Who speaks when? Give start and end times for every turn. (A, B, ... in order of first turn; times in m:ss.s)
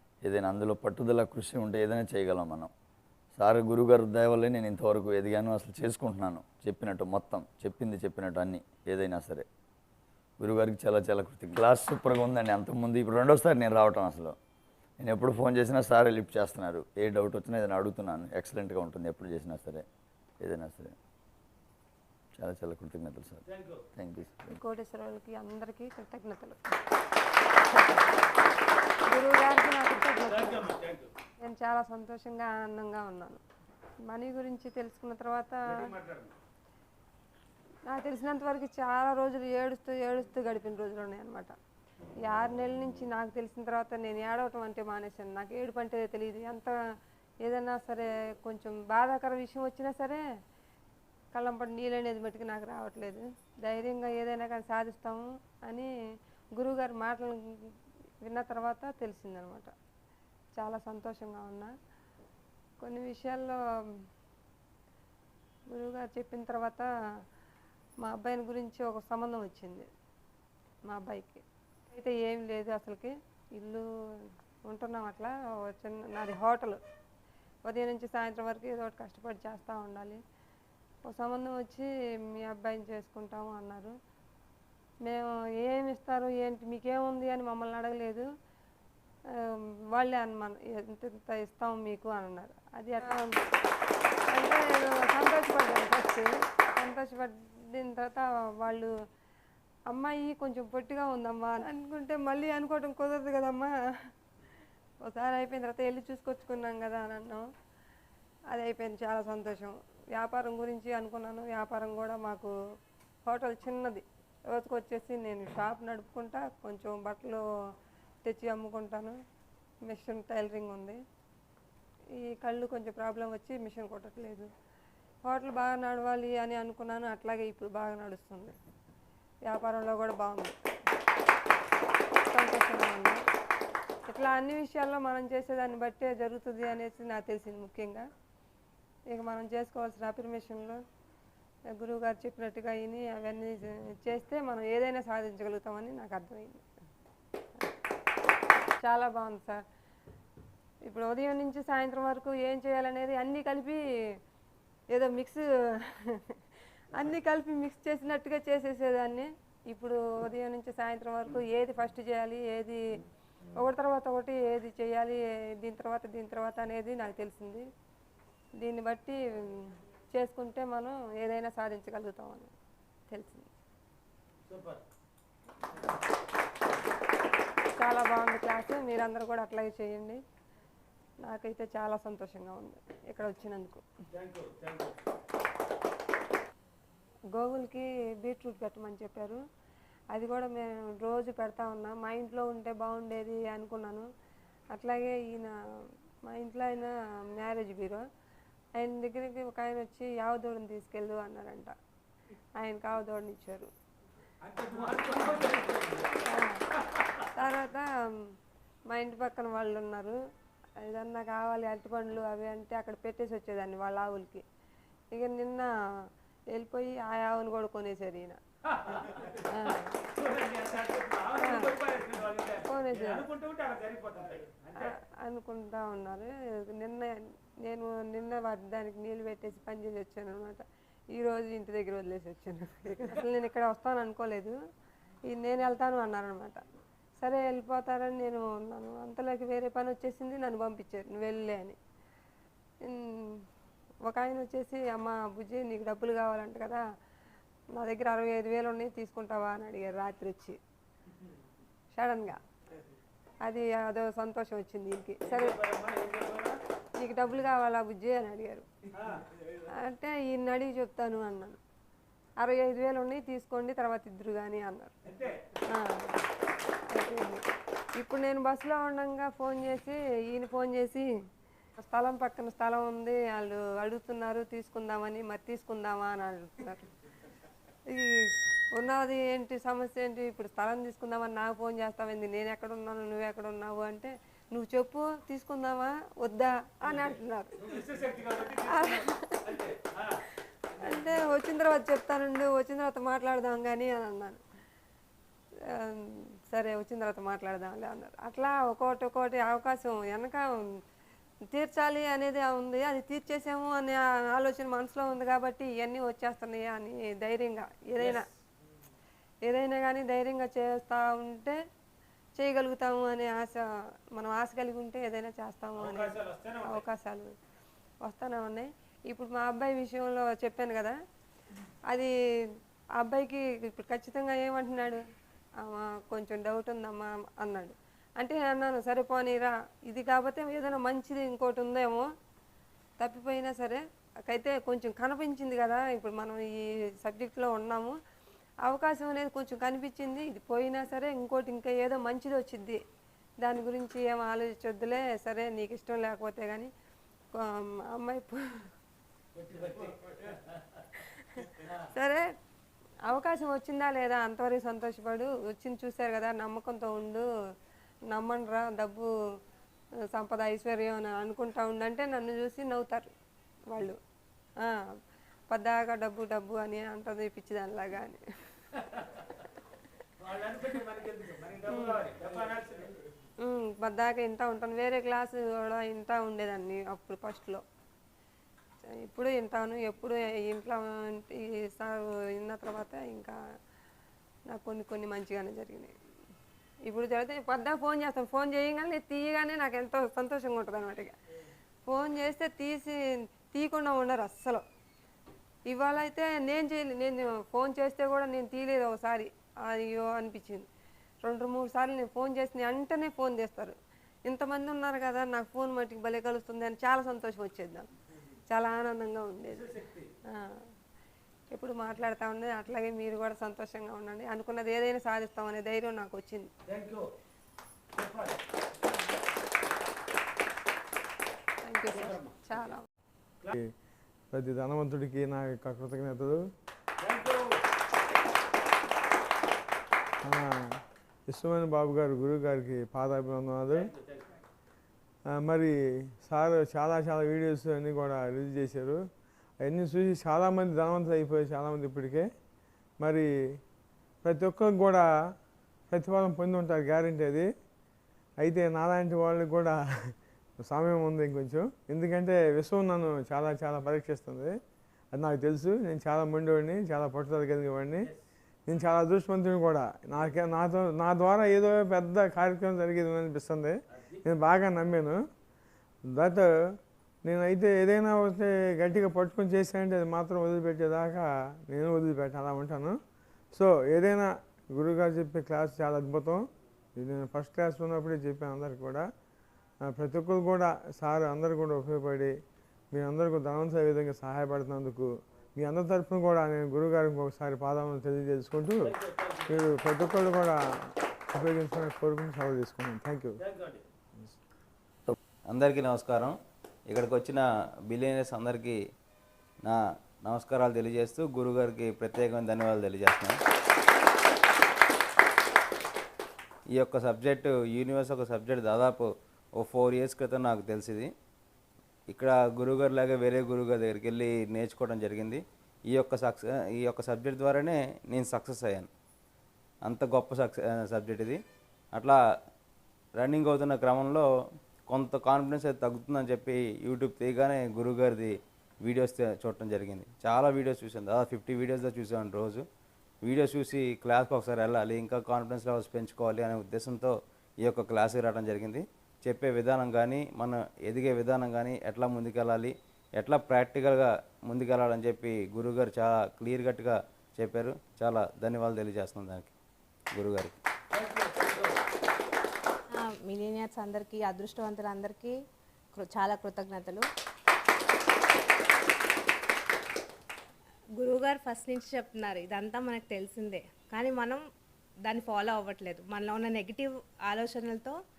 0:00.2-0:02.7 A
0:03.3-0:09.4 A
0:10.4-0:14.4 A
0:15.0-0:19.8 A
0:20.4-0:20.9 A
0:22.3-0:23.4 A
0:23.5-0:23.8 B
0:24.0-0:24.6 A
0:24.5-0:26.6 C
0:29.1-0:30.8 C
0:30.4-0:31.1 B
0:31.4-0:33.4 C
0:34.0-0:35.9 C
0:35.8-0:36.3 B
0:37.9-0:41.5 C
0:42.2-0:46.7 C
0:47.4-0:50.2 C
0:51.3-0:55.9 C
0:56.6-0:59.7 C
1:00.6-1:01.7 C
1:02.8-1:03.6 C
1:05.7-1:06.9 C
1:08.0-1:09.9 C
1:10.9-1:16.8 C
1:17.6-1:20.2 C
1:21.1-1:24.0 C
1:25.0-1:28.3 C
1:29.3-1:33.4 C
1:34.3-1:38.9 C
1:39.9-1:44.1 C
1:45.0-1:47.5 C
1:48.5-1:52.5 C
1:53.2-1:57.4 C
1:58.2-1:59.2 C
1:59.9-2:01.0 C
2:02.2-2:04.5 C
2:05.2-2:08.6 C
2:09.4-2:10.6 C
2:12.3-2:13.2 C
2:14.1-2:18.1 C
2:19.1-2:20.8 C
2:21.7-2:26.6 C
2:28.8-2:29.6 C
2:30.8-2:33.8 C
2:34.9-2:36.4 C
2:36.9-2:42.8 C
2:43.6-2:47.6 C
2:48.6-2:52.5 C
2:53.1-2:53.5 C
2:54.5-2:54.8 B
2:57.8-3:00.2 C
3:01.2-3:03.8 C
3:04.1-3:04.9 B
3:07.3-3:09.4 C
3:10.1-3:14.1 C
3:14.7-3:15.5 C
3:16.3-3:18.0 C
3:18.8-3:21.7 C
3:22.6-3:23.7 C
3:24.5-3:26.0 B
3:25.0-3:25.4 C
3:26.2-3:26.6 C
3:27.2-3:28.3 C
3:28.9-3:30.2 C
3:30.8-3:34.4 C
3:35.1-3:38.4 C
3:38.9-3:40.0 C
3:40.2-3:44.6 B
3:41.3-3:41.8 C
3:42.6-3:43.3 C
3:44.7-3:54.6 C
3:55.3-3:56.6 C
3:57.2-4:01.8 C
4:02.8-4:03.4 C
4:04.0-4:06.8 C
4:07.8-4:10.6 C
4:11.9-4:12.4 C
4:13.4-4:15.6 C
4:15.3-4:16.6 B
4:17.0-4:18.7 C
4:19.7-4:21.6 C
4:22.4-4:24.9 C
4:25.7-4:26.2 C
4:26.9-4:27.4 C
4:28.0-4:31.1 C
4:31.8-4:36.8 C
4:37.9-4:47.8 C
4:47.7-4:50.2 B
4:48.4-4:49.6 C
4:50.7-4:54.4 C
4:55.6-5:00.7 C
5:01.5-5:08.3 C
5:09.4-5:11.6 C
5:12.4-5:17.3 C
5:15.8-5:16.8 B
5:18.0-5:21.0 C
5:23.0-5:25.0 C
5:25.6-5:32.1 C
5:33.0-5:38.0 C
5:38.6-5:42.8 C
5:43.4-5:46.7 C
5:47.3-5:48.6 C
5:49.4-5:50.2 B
5:51.2-5:52.3 C
5:53.0-5:57.3 C
5:58.1-5:59.1 C
6:00.1-6:03.1 C
6:03.7-6:04.0 C
6:04.6-6:04.9 C
6:05.5-6:08.2 C
6:10.2-6:12.9 B
6:11.7-6:12.1 C
6:13.4-6:17.6 C
6:19.0-6:23.4 C
6:24.5-6:25.9 C
6:26.8-6:31.1 C
6:31.9-6:33.0 C
6:33.5-6:34.6 C
6:35.7-6:40.7 C
6:41.2-6:47.9 C
6:48.5-6:49.8 C
6:49.7-6:50.1 B
6:50.3-6:50.7 C
6:51.5-6:56.5 C
6:56.6-6:57.1 B
6:58.0-6:58.3 B
7:01.6-7:02.8 C
7:02.0-7:02.6 B
7:04.3-7:06.5 D
7:07.0-7:07.5 B
7:10.2-7:10.7 D
7:11.3-7:13.9 D
7:13.8-7:14.2 B
7:15.3-7:19.0 D
7:19.6-7:22.3 D
7:23.0-7:23.3 D
7:24.2-7:25.1 D
7:25.9-7:27.5 D
7:28.4-7:29.8 D
7:30.6-7:34.5 D
7:35.1-7:38.1 D
7:38.7-7:45.2 D
7:46.1-7:46.5 D
7:47.2-7:53.0 D
7:53.5-7:56.4 D
7:57.0-7:59.1 D
7:59.9-8:02.3 D
8:02.9-8:09.0 D
8:08.8-8:09.6 B
8:09.5-8:13.4 D
8:13.4-8:13.8 B
8:15.5-8:16.4 E
8:16.9-8:18.8 E
8:19.6-8:23.4 E
8:26.7-8:31.1 E
8:32.1-8:38.9 E
8:39.8-8:41.4 E
8:43.2-8:44.3 E
8:44.9-8:52.6 E
8:53.2-9:09.5 E
9:10.1-9:10.6 E
9:10.9-9:11.7 B
9:12.9-9:15.4 F
9:15.9-9:17.1 F
9:21.0-9:24.4 F
9:25.0-9:28.0 F